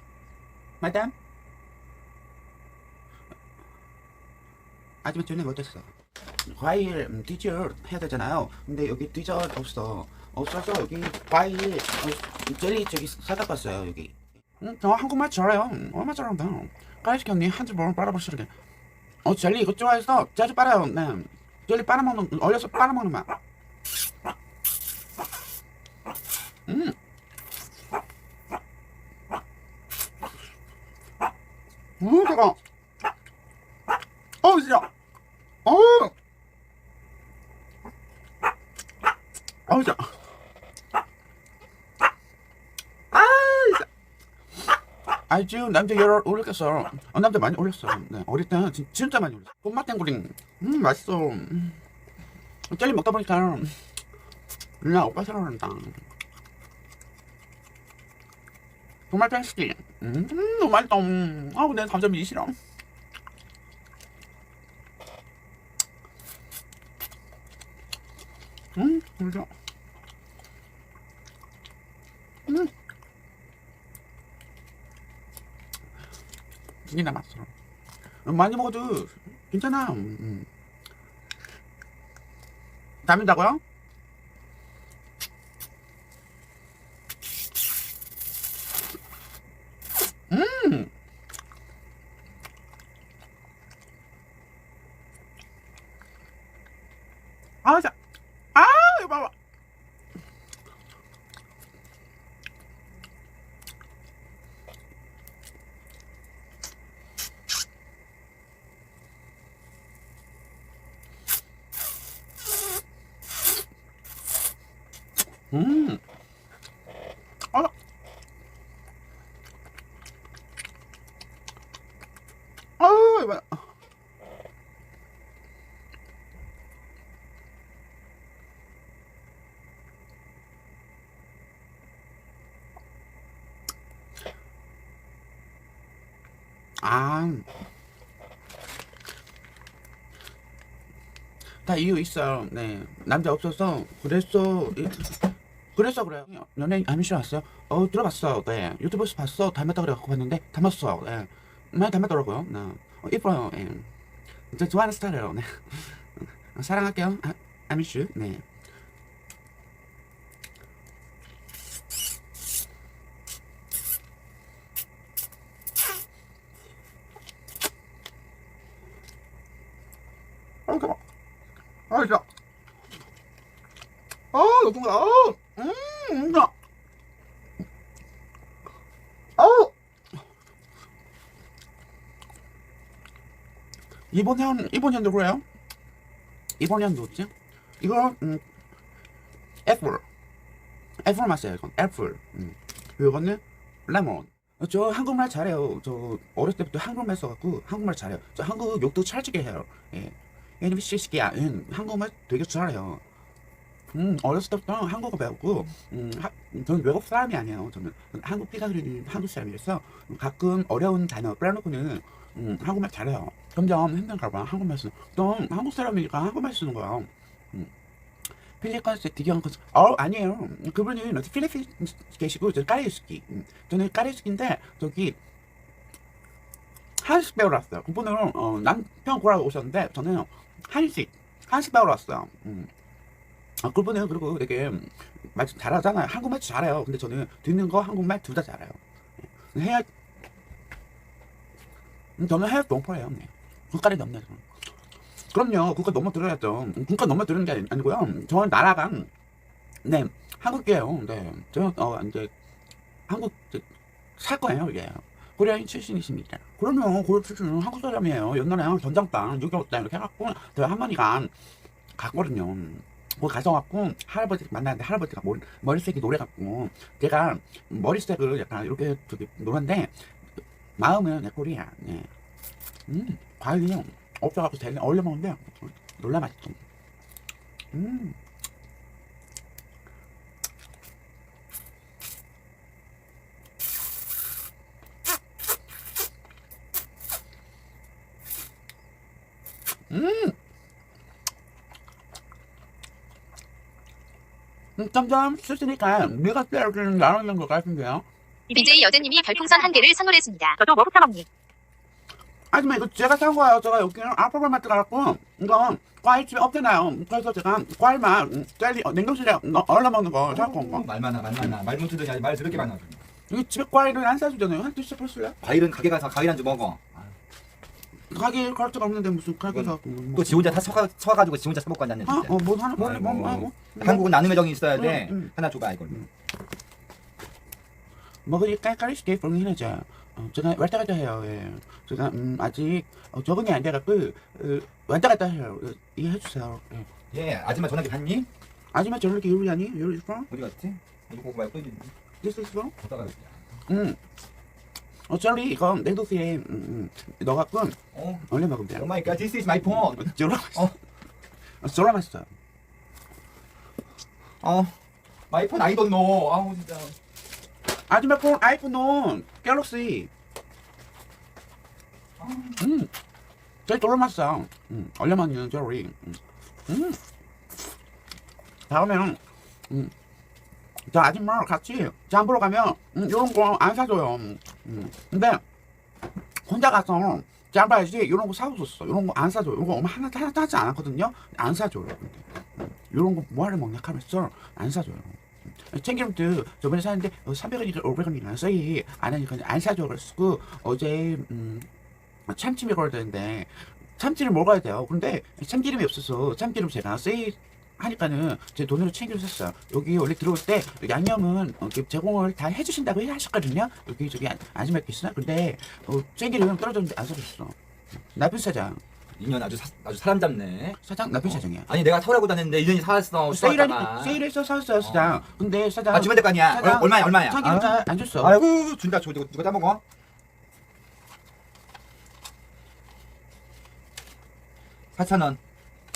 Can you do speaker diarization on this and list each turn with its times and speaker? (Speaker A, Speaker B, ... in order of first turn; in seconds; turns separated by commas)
Speaker A: 0.8-1.1, Speaker A: 5.0-5.9, Speaker A: 6.5-18.5, Speaker A: 19.2-23.3, Speaker A: 26.7-26.9, Speaker A: 32.0-32.6, Speaker A: 34.4-34.9, Speaker A: 35.6-36.1, Speaker A: 39.7-40.1, Speaker A: 43.1-43.9, Speaker A: 45.3-51.8, Speaker A: 52.7-53.8, Speaker A: 54.8-56.0, Speaker A: 59.1-62.5, Speaker A: 68.8-69.5, Speaker A: 76.8-77.5, Speaker A: 78.2-80.5, Speaker A: 83.0-83.6, Speaker A: 90.3-90.9, Speaker A: 97.6-97.9, Speaker A: 98.5-99.3, Speaker A: 115.5-116.0, Speaker A: 122.8-123.7, Speaker A: 136.8-137.4, Speaker A: 141.6-153.9, Speaker A: 154.5-158.4, Speaker A: 170.7-171.0, Speaker A: 171.9-172.2, Speaker A: 174.3-176.5, Speaker A: 179.4-179.7, Speaker A: 184.1-185.4, Speaker A: 186.6-188.4, Speaker A: 189.7-190.0, Speaker A: 191.0-203.0, Speaker A: 203.9-217.7, Speaker A: 218.6-225.2, Speaker A: 227.0-232.7, Speaker A: 233.6-238.8, Speaker A: 239.5-239.8, Speaker A: 242.2-244.4, Speaker A: 245.3-249.1, Speaker A: 249.8-252.3, Speaker A: 253.1-253.6, Speaker A: 254.2-261.3, Speaker A: 262.0-269.9, Speaker A: 270.8-272.1, Speaker A: 272.9-276.6, Speaker A: 277.7-278.1, Speaker A: 289.9-290.4, Speaker A: 294.8-298.1, Speaker B: 298.5-299.8, Speaker C: 298.5-300.6, Speaker B: 300.6-301.2, Speaker A: 302.5-310.8, Speaker D: 310.3-313.0, Speaker A: 313.3-315.4, Speaker D: 315.4-317.1, Speaker A: 318.1-320.7, Speaker D: 319.5-326.1, Speaker A: 322.1-324.2, Speaker A: 324.7-325.3, Speaker A: 328.2-336.9, Speaker D: 337.1-338.3, Speaker A: 338.7-340.3, Speaker D: 340.3-341.9, Speaker A: 342.2-342.7, Speaker D: 342.8-343.4, Speaker A: 343.7-344.0, Speaker A: 345.1-348.9, Speaker D: 347.9-350.7, Speaker A: 349.7-350.7, Speaker A: 351.6-352.3, Speaker D: 354.4-354.8, Speaker D: 355.3-356.9, Speaker A: 357.9-360.1, Speaker D: 362.2-362.6, Speaker A: 362.6-362.9, Speaker A: 363.7-367.0, Speaker A: 368.7-369.9, Speaker A: 370.9-375.4, Speaker A: 376.4-382.2, Speaker A: 382.8-391.7, Speaker A: 392.3-407.5, Speaker A: 408.1-408.8, Speaker D: 409.2-414.2, Speaker A: 410.8-411.7, Speaker A: 413.3-418.4, Speaker D: 414.8-415.2, Speaker D: 415.9-419.8, Speaker D: 424.9-425.4